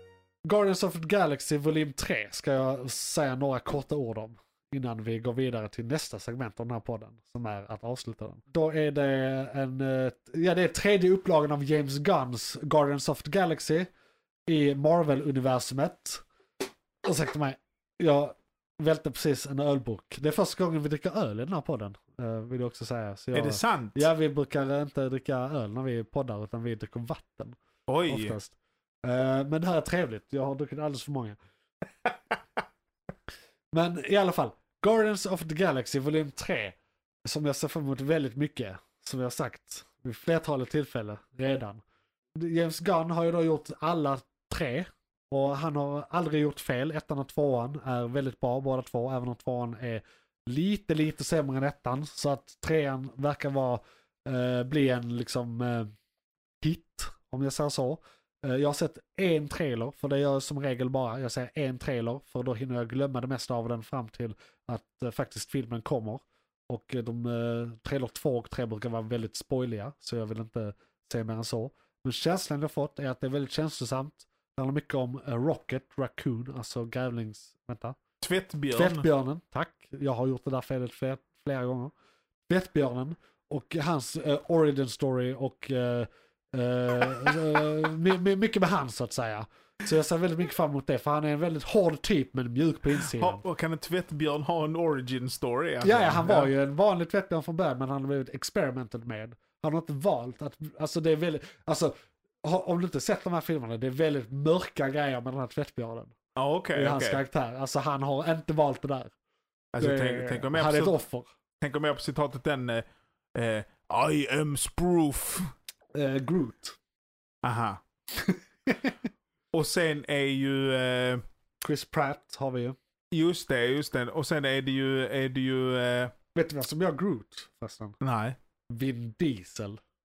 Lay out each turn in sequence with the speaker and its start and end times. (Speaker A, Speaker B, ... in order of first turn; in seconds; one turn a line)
Speaker A: 0.4-13.9
Speaker A: 14.5-16.2
Speaker A: 17.0-27.6
Speaker B: 23.3-24.1
Speaker B: 27.9-28.4
Speaker A: 28.1-31.4
Speaker A: 33.7-41.8
Speaker A: 42.4-55.9
Speaker A: 56.6-78.0
Speaker B: 78.2-79.0
Speaker A: 78.7-81.9
Speaker A: 82.5-93.4
Speaker B: 92.9-96.5
Speaker A: 95.8-101.9
Speaker A: 102.4-106.1
Speaker B: 106.4-107.2
Speaker A: 106.7-109.1
Speaker B: 109.7-111.0
Speaker A: 109.8-111.3
Speaker B: 111.6-112.8
Speaker B: 113.3-115.5
Speaker A: 115.9-116.8
Speaker B: 117.4-117.8
Speaker A: 118.1-119.0
Speaker B: 119.5-121.2
Speaker A: 121.6-122.8
Speaker B: 123.1-126.1
Speaker A: 126.3-128.0
Speaker B: 128.0-128.3
Speaker A: 128.7-129.8